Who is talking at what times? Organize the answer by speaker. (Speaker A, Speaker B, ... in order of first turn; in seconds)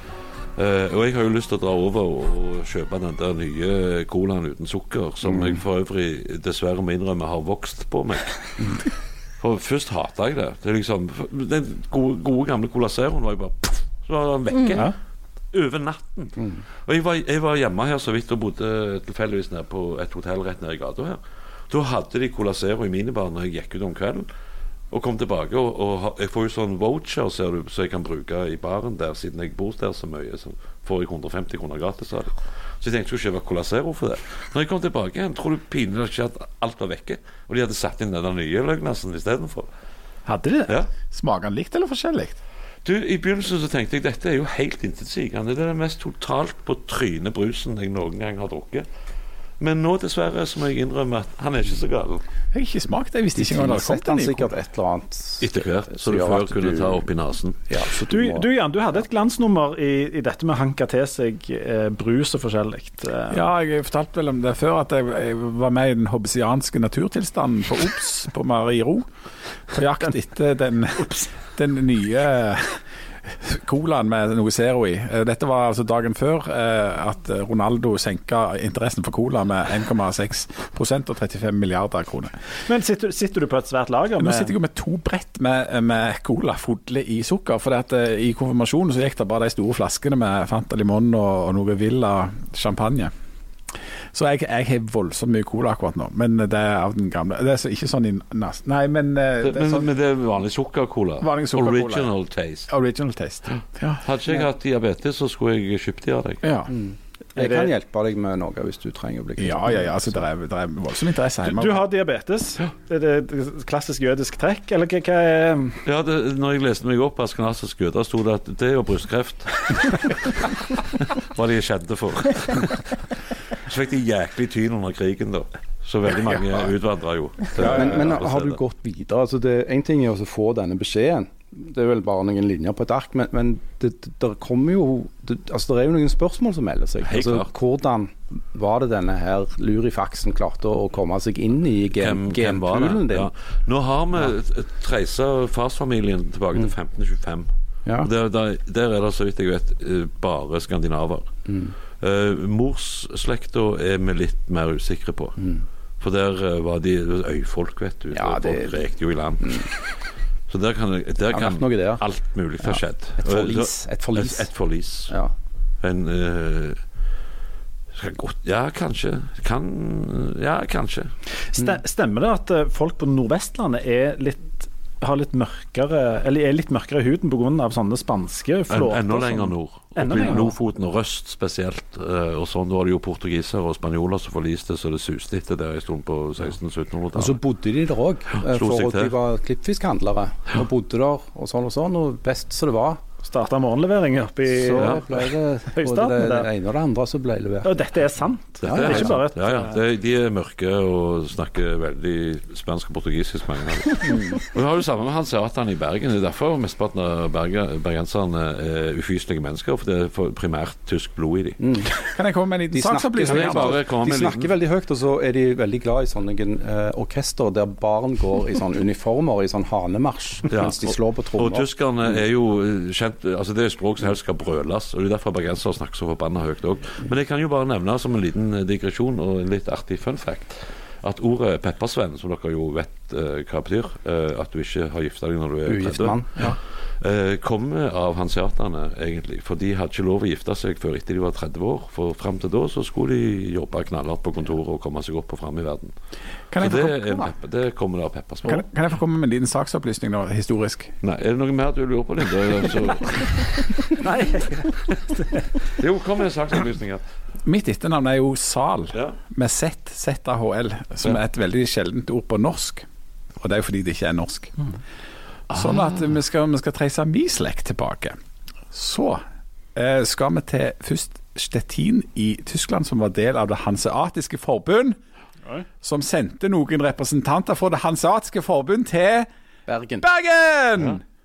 Speaker A: 0.6-8.3, 9.4-14.9, 15.5-24.3, 24.9-39.7, 42.8-48.9, 49.6-52.2, 55.4-57.6, 99.4-102.7, 103.5-106.4, 115.8-123.0, 123.6-128.6, 137.0-137.5, 141.9-147.5, 148.0-151.3, 152.0-155.4, 156.0-159.8, 160.5-165.1, 165.8-166.8, 167.9-171.1, 178.7-187.4, 188.4-189.1, 198.6-211.6, 213.2-214.5, 220.5-245.9, 246.6-248.7, 251.0-253.7, 255.8-257.0
Speaker B: 5.2-5.6, 53.4-57.0, 57.7-58.5, 106.7-110.2, 127.6-143.3, 151.5-151.7, 155.4-155.6, 158.1-158.8, 159.4-159.7, 161.3-162.0, 162.6-164.5, 187.1-193.0, 194.5-197.7, 198.6-199.2, 204.0-204.4, 211.6-211.9, 212.7-221.7, 235.7-236.6, 279.7-280.0
Speaker C: 40.2-40.8, 58.0-63.4, 82.7-84.5, 107.3-107.7, 111.4-115.8, 171.5-180.5, 193.2-196.5, 197.6-199.8, 253.8-255.4
Speaker D: 41.1-42.4, 52.5-54.5, 63.3-69.1, 69.7-82.3, 84.2-93.1, 94.1-99.9, 101.2-102.1, 102.7-104.0, 106.4-106.7, 109.4-111.8, 127.5-128.1, 212.0-213.8, 246.5-247.3, 248.4-250.9, 257.4-262.9, 263.4-264.6, 265.5-268.2, 268.7-269.2, 269.7-275.0, 275.8-279.3, 280.0-281.0